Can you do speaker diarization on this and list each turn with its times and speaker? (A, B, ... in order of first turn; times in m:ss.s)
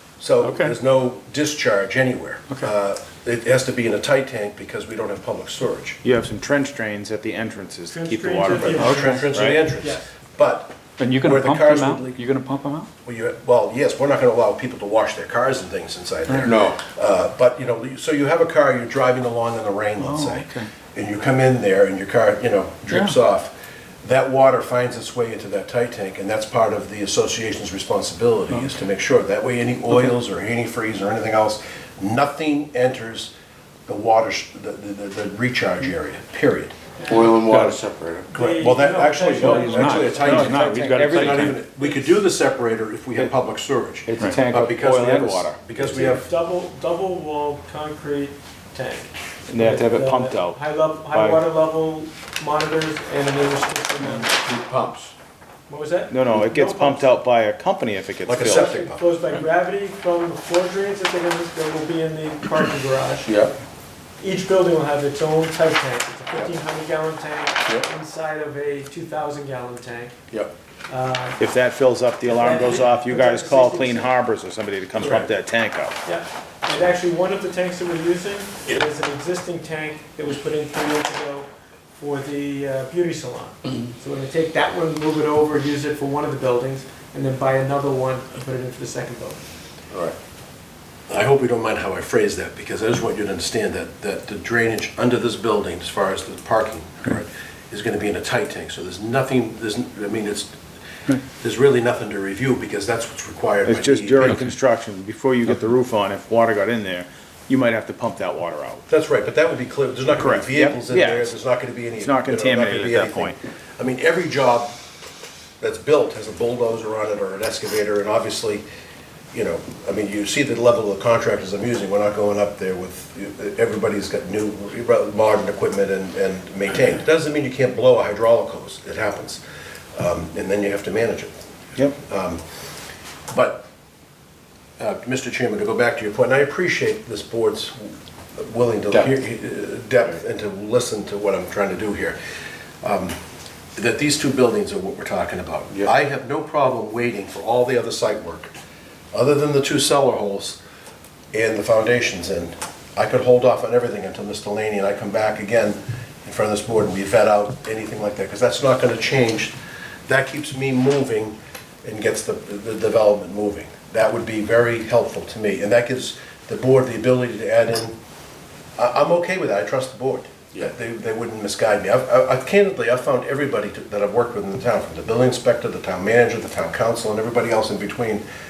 0:00.2-0:06.0 A
0:00.4-0:00.8 B
0:06.0-0:09.6 C
0:07.9-0:10.1 D
0:08.6-0:12.2 A
0:08.7-0:09.2 B
0:11.0-0:12.9 B
0:13.0-0:33.3 A
0:16.3-0:16.6 B
0:16.4-0:16.8 E
0:20.0-0:20.7 B
0:22.9-0:23.2 B
0:33.9-0:36.7 A
0:37.0-0:37.4 D
0:37.1-0:38.3 E
0:37.5-0:37.8 B
0:38.3-0:40.9 D
0:38.3-0:46.2 A
0:39.4-0:41.6 B
0:40.9-0:41.5 C
0:44.1-0:45.6 C
0:45.8-0:54.4 D
0:49.5-0:51.4 C
0:54.2-0:55.1 E
0:55.7-0:57.1 D
0:56.1-0:58.7 C
0:58.2-0:59.0 A
0:58.4-1:03.3 D
1:03.2-1:03.5 E
1:04.2-1:10.2 D
1:10.9-1:11.4 D
1:11.4-1:16.0 C
1:12.2-1:14.1 D
1:15.0-1:15.3 D
1:16.0-1:29.4 D
1:31.1-1:40.6 A
1:41.2-1:44.4 A
1:43.6-1:48.8 C
1:44.2-1:44.5 B
1:48.9-1:54.8 A
1:50.1-1:51.4 C
1:52.0-1:53.4 C
1:55.6-1:58.6 A
1:59.3-2:09.4 A
2:09.9-2:11.4 A
2:12.0-2:12.4 A
2:13.3-2:13.7 A
2:14.8-2:22.2 A
2:22.8-2:23.2 A
2:23.8-2:28.5 A
2:29.1-2:30.6 A
2:31.3-2:39.6 A
2:40.1-2:48.0 A
2:48.8-2:58.2 A